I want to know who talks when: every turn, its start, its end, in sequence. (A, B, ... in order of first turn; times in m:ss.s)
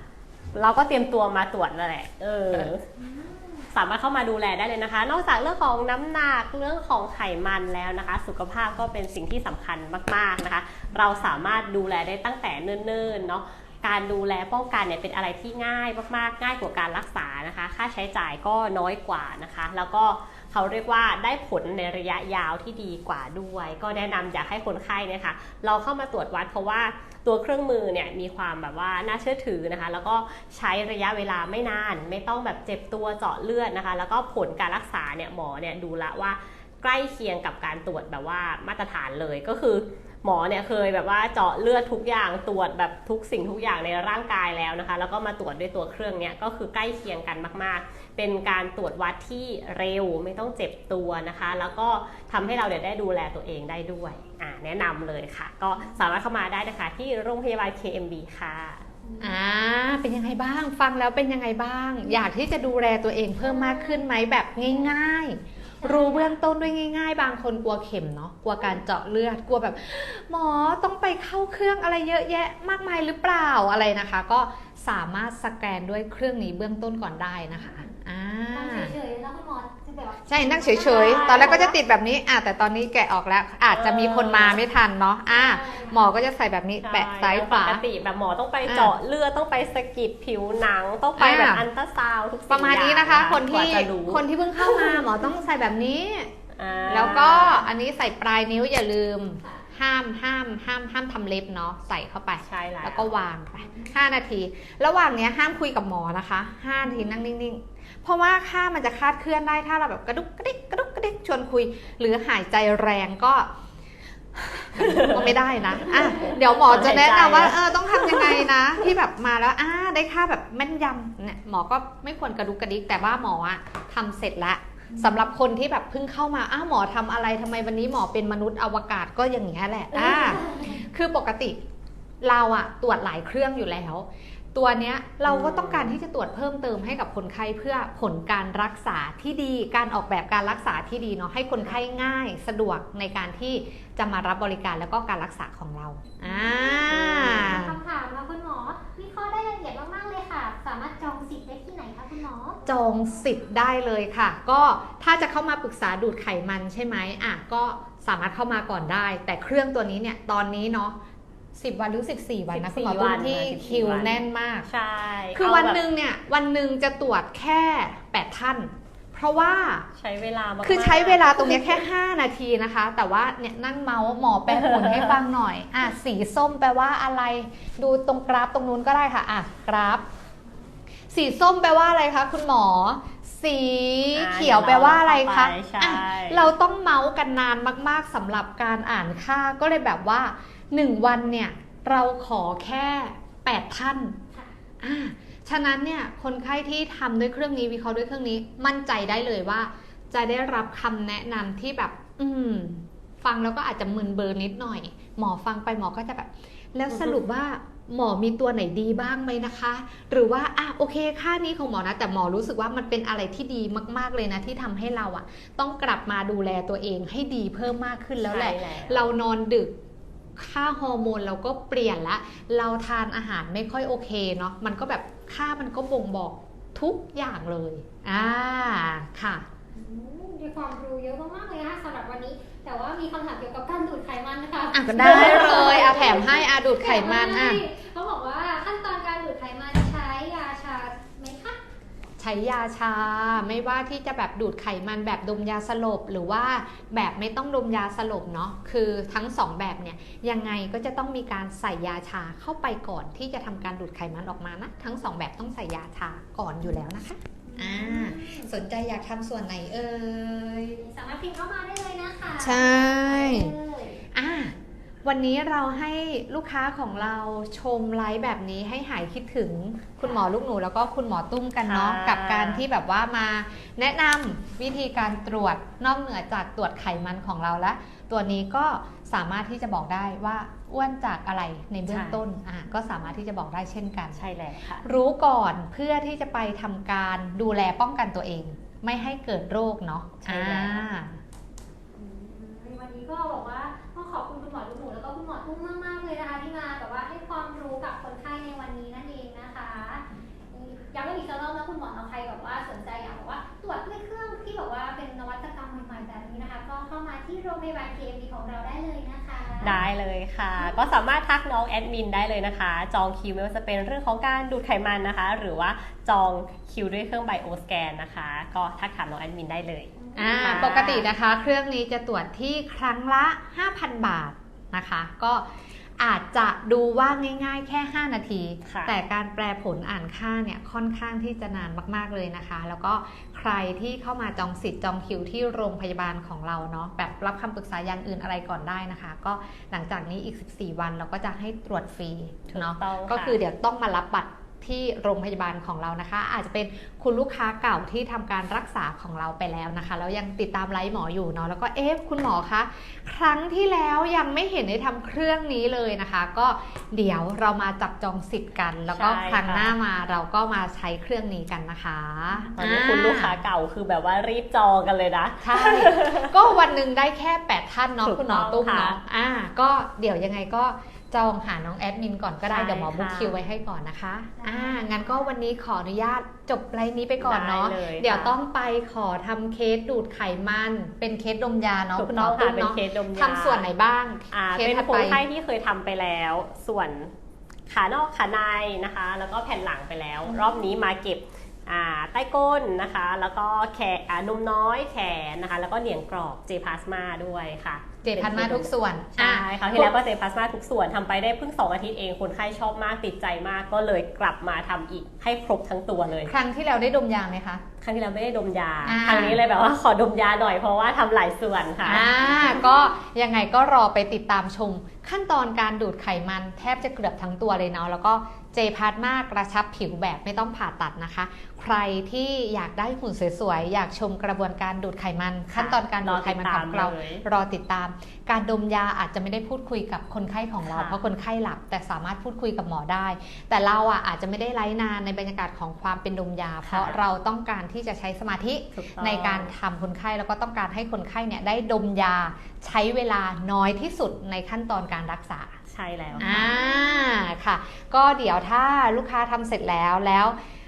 0:00.5-0:02.8 A
0:03.0-0:03.6 B
0:03.7-0:58.8 A
0:59.0-0:59.4 B
0:59.2-1:18.9 C
1:03.5-1:04.0 B
1:05.8-1:06.4 B
1:18.5-1:21.8 B
1:20.3-1:27.8 C
1:20.9-1:21.6 A
1:23.7-1:24.6 A
1:25.3-1:26.0 B
1:26.8-1:35.0 A
1:28.7-1:29.0 C
1:31.2-1:31.6 C
1:32.5-1:36.3 C
1:36.6-1:37.7 A
1:36.9-1:53.5 C
1:42.5-1:43.1 A
1:43.6-1:43.9 B
1:54.4-2:11.6 C
1:55.9-1:58.5 A
2:10.0-2:10.8 B
2:12.2-2:27.8 C
2:15.3-2:16.0 A
2:26.2-2:32.6 B
2:26.9-2:27.7 A
2:32.7-2:41.0 C
2:41.6-2:44.7 C
2:42.5-2:45.8 A
2:45.3-2:49.9 C
2:50.0-2:51.8 A
2:50.6-3:00.1 C
2:54.5-2:55.2 A
3:01.1-3:14.2 C
3:04.1-3:06.5 A
3:14.8-3:39.7 C
3:38.2-3:39.1 A
3:40.4-3:49.5 C
3:49.7-4:01.6 B
3:54.7-3:57.6 C
4:02.2-4:20.8 C
4:17.5-4:18.5 B
4:20.8-4:24.0 B
4:22.4-4:23.5 C
4:24.1-4:44.2 C
4:31.6-4:32.6 A
4:41.9-4:42.2 A
4:44.2-4:44.9 A
4:44.8-4:51.2 C
4:50.2-4:50.9 A
4:52.0-5:09.7 B
5:09.6-5:21.1 A
5:20.0-5:20.7 B
5:20.2-5:25.5 C
5:26.0-6:03.4 C
5:28.6-5:28.9 A
5:42.5-5:43.4 A
5:58.9-5:59.7 A
6:02.6-6:06.4 A
6:05.4-6:25.2 C
6:08.0-6:09.0 A
6:12.5-6:13.4 A
6:14.4-6:15.1 B
6:17.2-6:18.3 A
6:22.0-6:23.7 A
6:24.3-6:27.1 A
6:27.7-6:46.3 A
6:38.0-6:39.9 C
6:46.3-6:47.6 C
6:47.8-6:52.4 A
6:48.8-6:49.4 C
6:51.8-7:25.6 C
7:05.5-7:07.2 A
7:10.6-7:11.0 A
7:16.6-7:17.0 A
7:18.8-7:19.5 A
7:25.7-7:26.5 A
7:26.2-7:27.3 B
7:26.2-7:30.4 C